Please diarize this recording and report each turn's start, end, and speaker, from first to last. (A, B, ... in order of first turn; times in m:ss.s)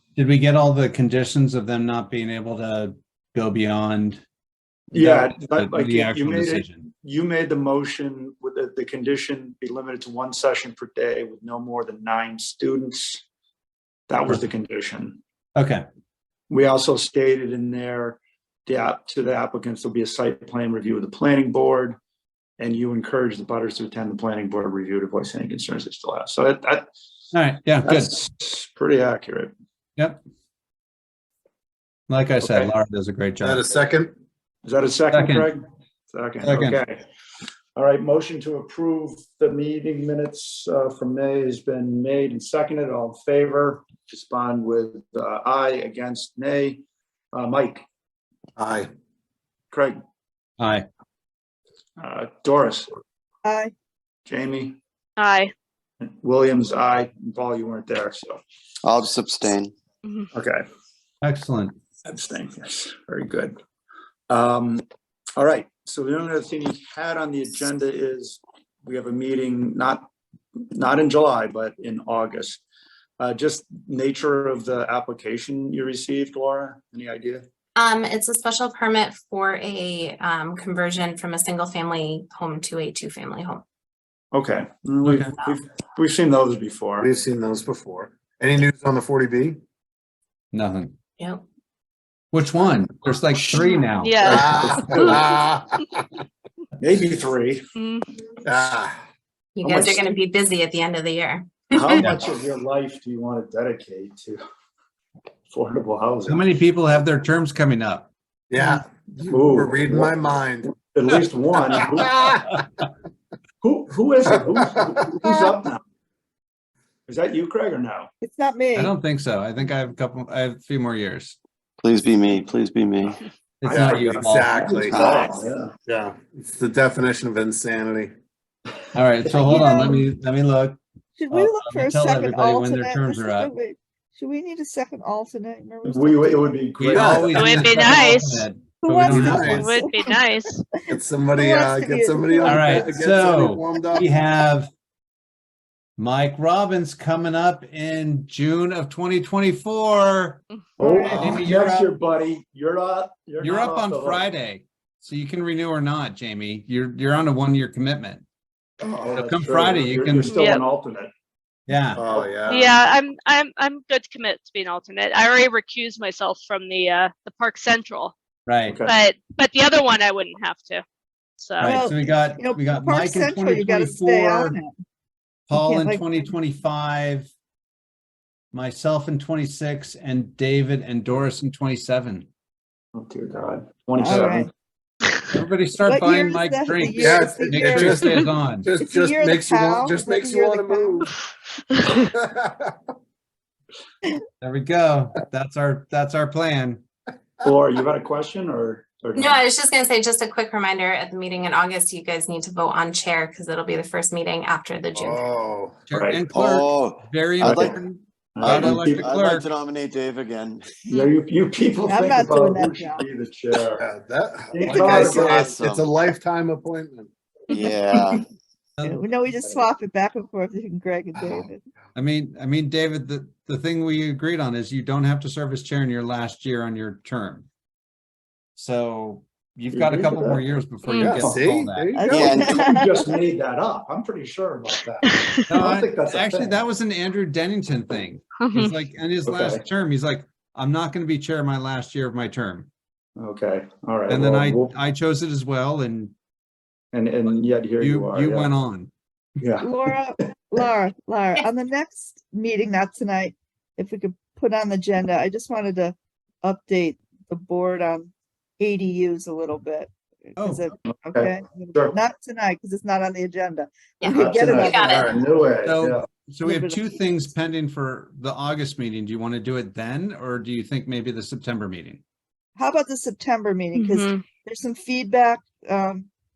0:00.2-0:04.2 A
0:04.9-0:06.9 A
0:04.9-0:13.2 B
0:14.1-0:15.2 B
0:15.6-0:15.8 A
0:16.5-0:22.0 B
0:22.6-0:26.9 B
0:27.3-0:28.1 A
0:27.8-0:29.5 B
0:32.1-0:33.6 A
0:32.4-0:32.7 B
0:33.4-0:34.1 C
0:34.6-0:37.0 B
0:35.1-0:35.5 A
0:36.4-0:36.8 A
0:37.8-0:47.8 B
0:48.6-0:48.9 C
0:49.7-0:50.0 B
0:50.6-0:50.9 A
0:52.0-0:52.9 B
0:53.4-0:53.7 D
0:54.3-0:54.8 B
0:55.2-0:55.5 E
0:56.0-0:58.4 B
0:58.8-0:59.7 F
1:00.3-1:00.6 B
1:01.2-1:01.8 A
1:02.0-1:03.5 B
1:04.3-1:04.8 B
1:05.4-1:10.1 B
1:10.7-1:12.6 B
1:13.2-1:17.4 B
1:17.8-1:23.6 G
1:24.3-1:27.1 B
1:25.0-1:25.3 A
1:27.0-1:29.6 C
1:30.5-1:31.0 A
1:32.3-1:34.9 A
1:34.0-1:35.3 E
1:34.2-1:35.8 C
1:36.8-1:37.6 B
1:37.8-1:38.1 E
1:38.4-1:38.9 C
1:39.6-1:42.0 G
1:39.6-1:40.1 B
1:41.7-1:44.4 B
1:45.5-1:46.5 B
1:46.3-1:48.1 A
1:48.5-1:50.8 C
1:49.3-1:52.3 B
1:52.1-1:52.4 C
1:53.6-1:55.8 B
1:57.1-1:58.1 B
1:58.2-1:58.9 D
1:58.7-2:01.4 A
2:01.8-2:03.2 F
2:03.6-2:04.6 A
2:03.6-2:05.7 B
2:03.7-2:05.0 C
2:04.9-2:05.4 F
2:05.8-2:08.1 C
2:09.0-2:13.5 A
2:09.4-2:10.0 D
2:11.2-2:16.5 D
2:15.8-2:17.7 B
2:16.8-2:19.8 A
2:16.9-2:17.6 C
2:17.3-2:18.5 E
2:18.8-2:20.1 D
2:19.1-2:19.6 C
2:19.5-2:20.6 E
2:20.9-2:24.1 C
2:21.3-2:23.0 D
2:22.4-2:24.7 A
2:26.0-2:30.4 A
2:30.8-2:31.4 D
2:30.8-2:34.2 B
2:31.0-2:31.4 C
2:31.1-2:31.9 A
2:33.4-2:38.2 A
2:38.8-2:41.1 B
2:39.2-2:40.4 A
2:40.2-2:40.6 E
2:41.7-2:42.0 A
2:42.0-2:42.8 C
2:42.0-2:42.3 B
2:42.5-2:48.2 E
2:48.5-2:48.8 A
2:48.7-2:48.9 B
2:48.8-2:50.8 E
2:51.4-2:51.8 E
2:51.6-2:54.6 A
2:51.6-2:54.7 D
2:55.5-2:57.3 A
2:55.5-2:56.3 D
2:58.5-3:02.3 A
3:03.0-3:04.5 B
3:04.0-3:04.5 D
3:05.3-3:08.7 A
3:05.8-3:08.0 D
3:07.0-3:11.1 C
3:08.8-3:11.1 D
3:11.8-3:12.7 C
3:14.4-3:16.8 A
3:17.4-3:19.4 B
3:19.2-3:25.2 G
3:25.0-3:25.8 C
3:25.9-3:29.5 A
3:25.9-3:26.2 B
3:26.3-3:27.8 F
3:27.4-3:27.8 B
3:28.4-3:29.1 B
3:28.4-3:30.8 F
3:30.9-3:33.9 B
3:31.9-3:33.0 D
3:33.8-3:37.1 C
3:34.5-3:35.4 B
3:34.6-3:35.3 D
3:35.1-3:35.9 F
3:37.5-3:37.8 E
3:37.5-3:38.2 F
3:38.8-3:39.0 A
3:38.8-3:41.6 D
3:42.0-3:47.5 A
3:48.6-3:52.0 A
3:49.7-3:50.5 B
3:50.8-3:51.2 E
3:51.0-3:52.4 C
3:51.9-3:53.0 D
3:52.1-3:52.6 F
3:52.1-3:56.6 B
3:55.0-3:55.4 E
3:55.5-4:02.7 A
3:58.4-3:58.8 E
3:59.2-3:59.6 B
4:03.2-4:04.7 B
4:04.1-4:06.1 A
4:06.9-4:08.5 B
4:07.8-4:08.9 A
4:09.4-4:09.7 B
4:09.6-4:25.2 D
4:20.4-4:20.7 A
4:20.8-4:22.0 B
4:24.0-4:25.1 G
4:24.0-4:26.0 B
4:25.6-4:32.0 A
4:26.4-4:27.2 D
4:32.6-4:36.1 D
4:33.7-4:34.2 E